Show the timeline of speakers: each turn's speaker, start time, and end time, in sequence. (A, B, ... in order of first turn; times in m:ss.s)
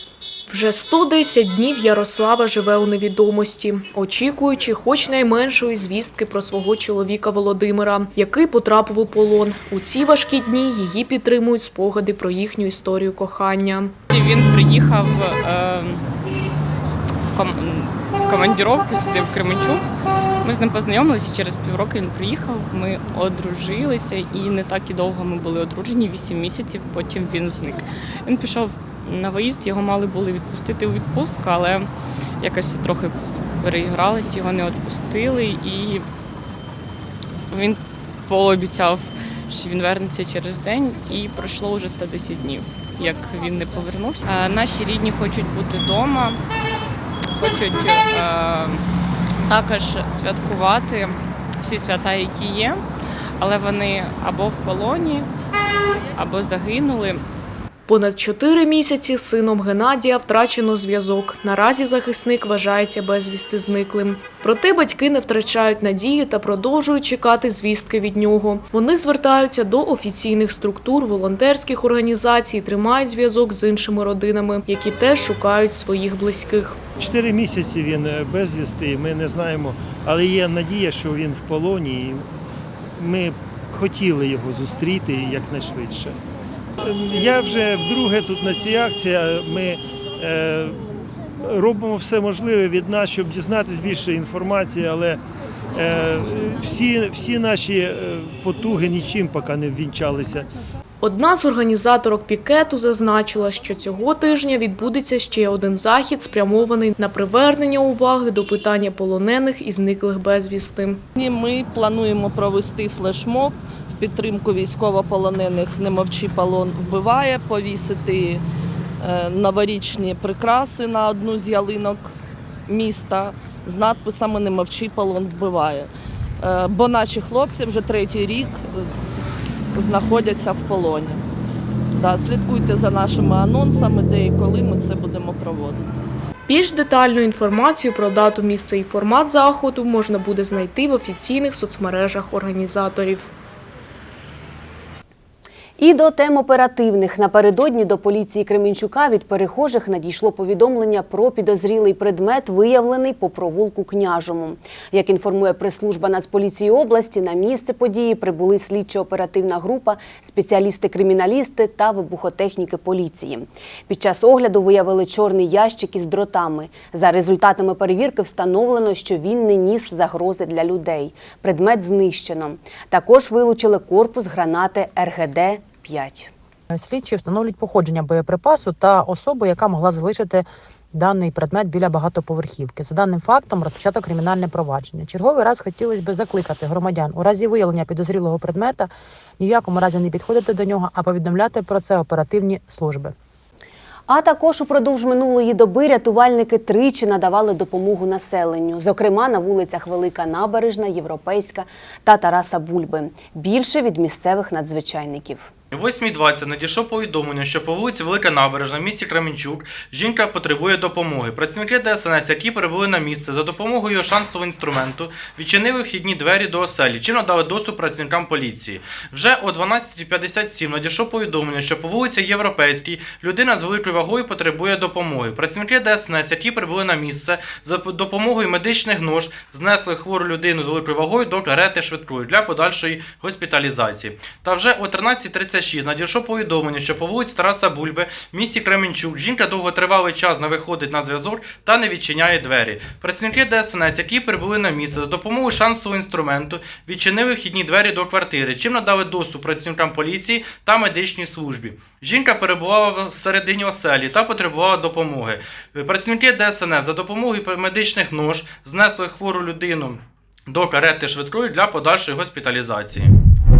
0:00.5-0:13.9 A
0:14.1-0:16.0 B
0:17.3-0:19.9 B
0:20.4-0:31.9 B
0:32.4-0:36.0 B
0:37.5-0:46.4 B
0:47.3-0:48.8 B
0:49.4-0:52.8 B
0:53.4-0:55.3 B
0:56.2-0:57.2 B
0:57.9-1:16.8 A
1:17.0-1:22.2 C
1:23.0-1:26.1 C
1:26.9-1:30.8 C
1:31.5-1:35.2 C
1:35.8-1:40.4 C
1:41.0-1:51.0 A
1:51.1-1:58.4 D
1:59.0-2:02.1 D
2:02.7-2:05.9 D
2:06.4-2:08.8 D
2:09.7-2:11.2 D
2:12.0-2:15.9 D
2:16.5-2:23.3 A
2:25.8-2:56.3 E
2:56.7-3:13.1 F
3:14.1-3:25.5 E
3:25.7-4:23.1 G